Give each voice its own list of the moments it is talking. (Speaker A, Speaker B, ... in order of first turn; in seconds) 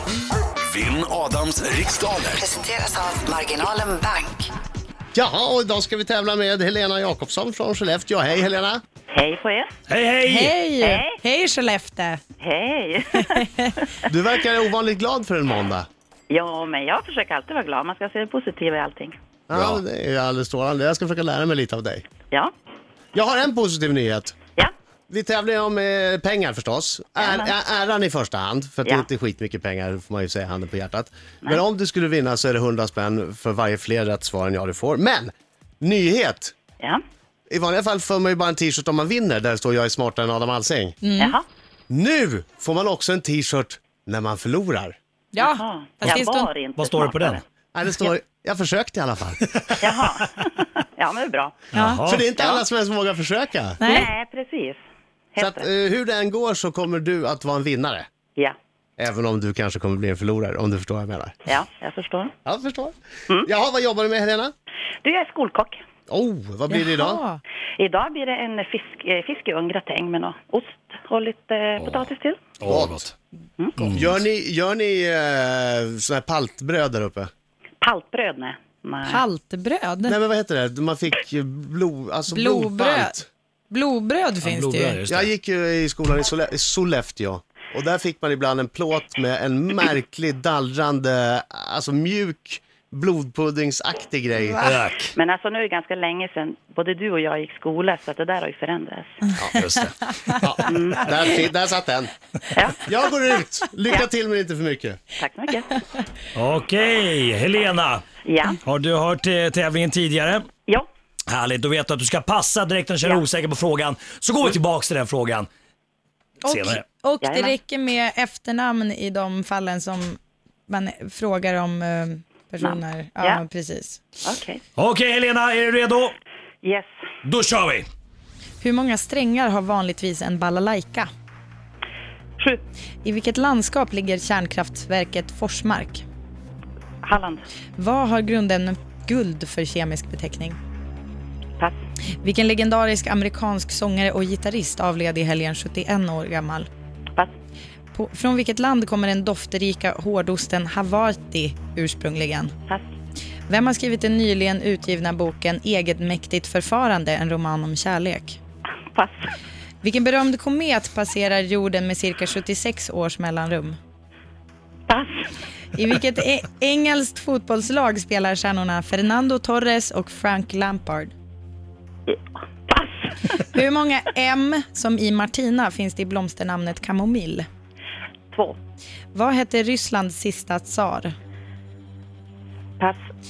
Speaker A: 0.6-2.5
Speaker B: 2.4-4.5
Speaker C: 5.1-8.8, 14.0-15.9, 19.5-22.0, 23.1-24.4, 25.1-36.5, 37.5-41.0, 41.9-45.0, 47.7-49.4, 52.0-53.8, 55.4-58.1, 59.0-61.3, 62.4-64.5, 66.1-67.2, 72.7-73.0, 73.9-77.3, 80.1-83.3, 85.1-94.7, 99.4-102.1, 102.8-105.0
Speaker D: 9.1-9.7, 10.8-11.2, 12.4-13.4, 16.3-19.1, 27.2-27.5, 41.2-41.4, 45.4-47.4, 49.8-51.6, 52.4-52.6, 53.8-54.8, 55.3-55.7, 61.5-62.3, 65.0-65.8, 67.8-72.4, 77.8-79.2, 95.1-99.2, 100.7-101.2, 102.5-102.8, 105.2-105.7, 108.2-108.6, 117.2-117.5, 122.6-123.4, 124.2-124.6, 126.6-126.9, 137.0-137.4, 158.9-159.3, 164.9-165.2, 172.1-173.3, 178.3-178.6
Speaker E: 9.9-10.5, 46.8-47.4, 51.7-52.2, 71.8-72.0, 72.6-73.1, 73.8-74.1, 84.4-85.3, 94.6-95.1, 99.5-99.9, 106.3-108.0, 108.6-110.5, 111.3-115.5, 116.4-116.8, 124.8-126.1, 127.2-127.9
Speaker F: 10.2-12.2, 13.1-13.8, 41.0-41.4, 45.3-46.5, 51.7-52.0, 53.8-54.1, 66.7-67.4, 79.1-80.2, 82.3-83.1, 83.7-85.0, 94.4-94.8, 99.6-100.4, 116.4-124.0, 128.6-131.1, 133.0-136.0, 137.8-140.6, 142.2-146.7, 147.9-152.5, 153.5-158.4, 159.8-163.8, 165.8-171.1, 173.4-177.5, 179.1-181.1